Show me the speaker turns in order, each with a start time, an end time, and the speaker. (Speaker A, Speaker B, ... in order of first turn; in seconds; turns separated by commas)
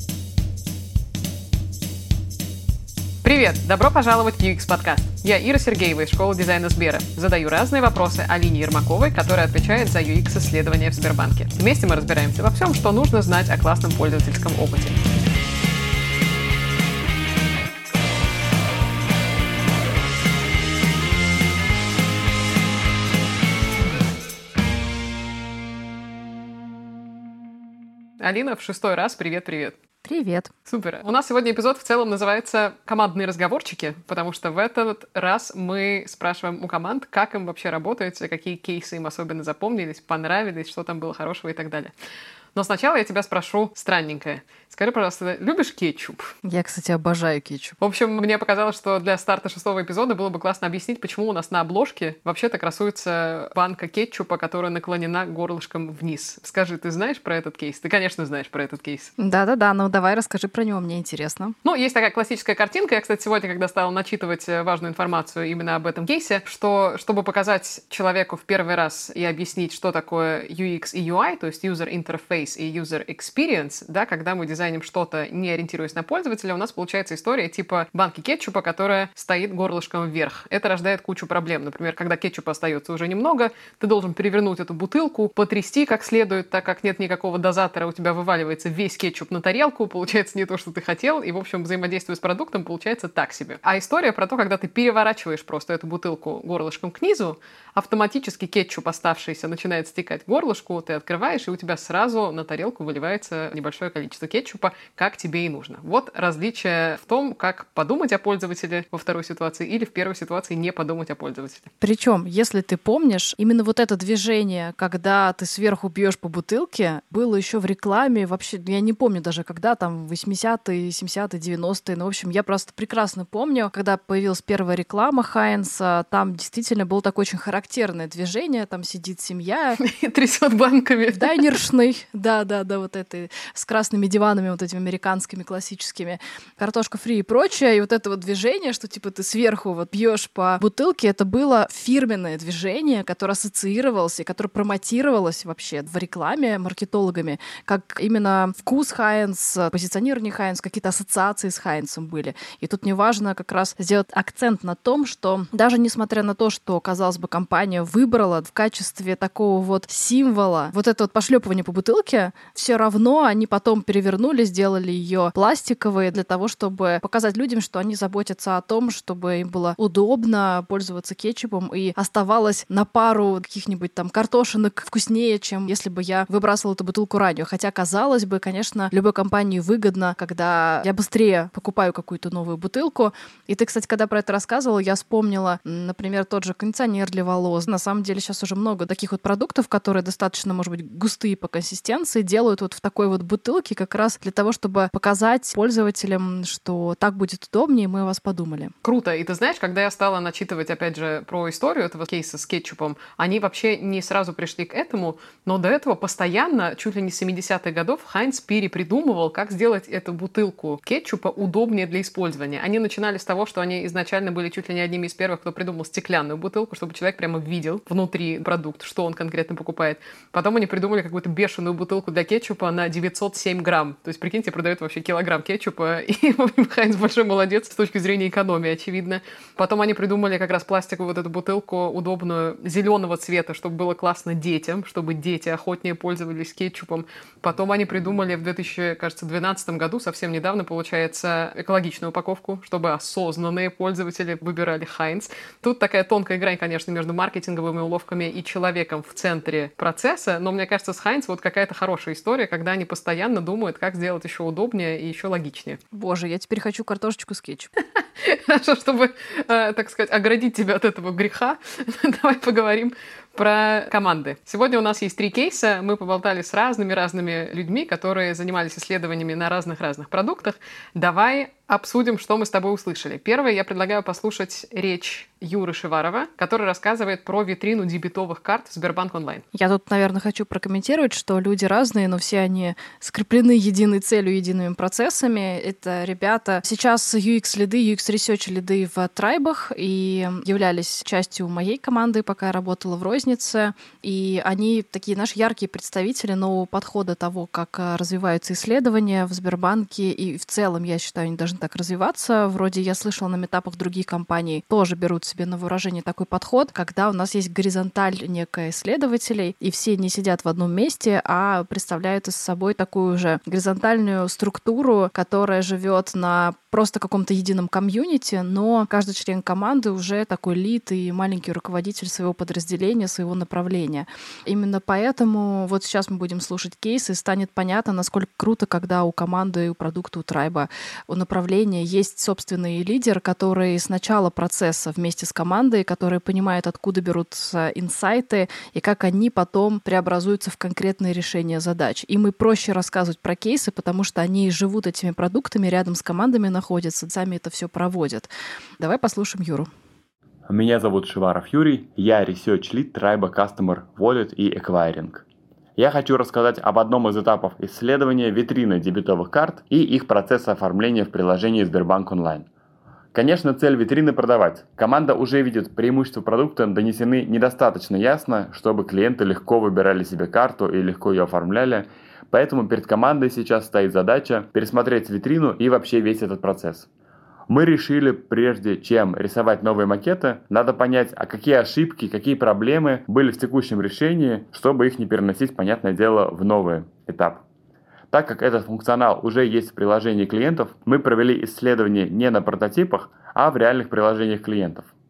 Speaker A: 3.2-15.0, Speaker A: 28.2-29.8, Speaker B: 30.0-30.5, Speaker A: 30.7-41.9, Speaker A: 42.5-46.3, Speaker B: 46.4-47.8, Speaker A: 47.8-59.1, Speaker B: 59.2-61.5, Speaker A: 61.6-111.7, Speaker B: 111.8-129.8, Speaker A: 129.8-131.6, Speaker B: 131.1-198.7, Speaker A: 198.8-255.8, Speaker B: 255.9-257.7, Speaker A: 258.2-279.4, Speaker B: 279.5-349.7, Speaker C: 350.5-355.2, Speaker C: 355.8-362.5, Speaker C: 363.1-376.9, Speaker C: 377.5-387.4, Speaker C: 388.1-394.9